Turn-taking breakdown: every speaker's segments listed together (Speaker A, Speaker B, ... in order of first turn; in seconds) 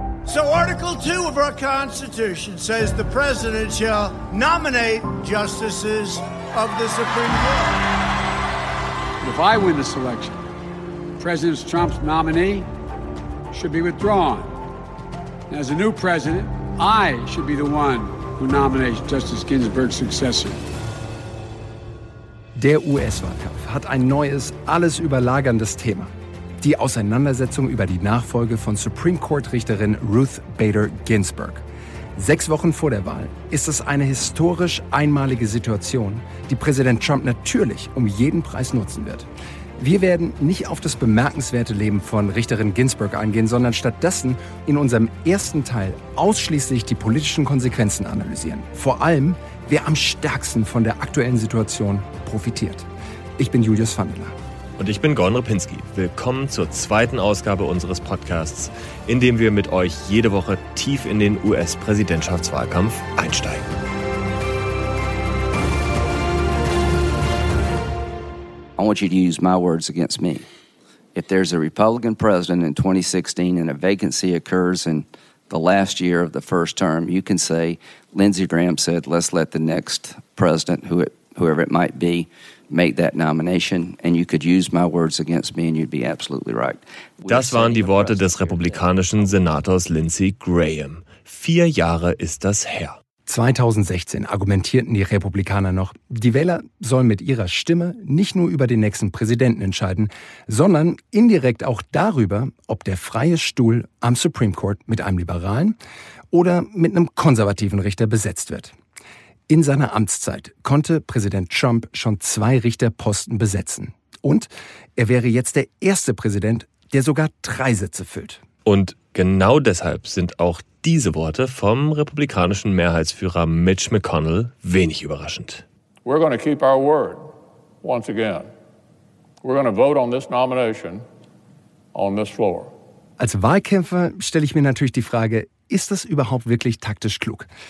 Speaker A: 0.2-7.8
Speaker B: 9.2-10.4, 11.2-12.7, 13.5-14.5, 15.5-20.6
Speaker C: 22.6-31.6, 32.1-52.9, 53.4-54.3, 93.2-105.8, 106.3-108.7, 109.5-118.4, 133.2-137.5
Speaker D: 54.8-63.6, 87.3-93.0, 118.6-125.6
Speaker E: 68.8-70.5, 71.1-89.4
Speaker F: 126.0-127.3, 127.8-128.5, 129.4-131.0, 131.9-132.7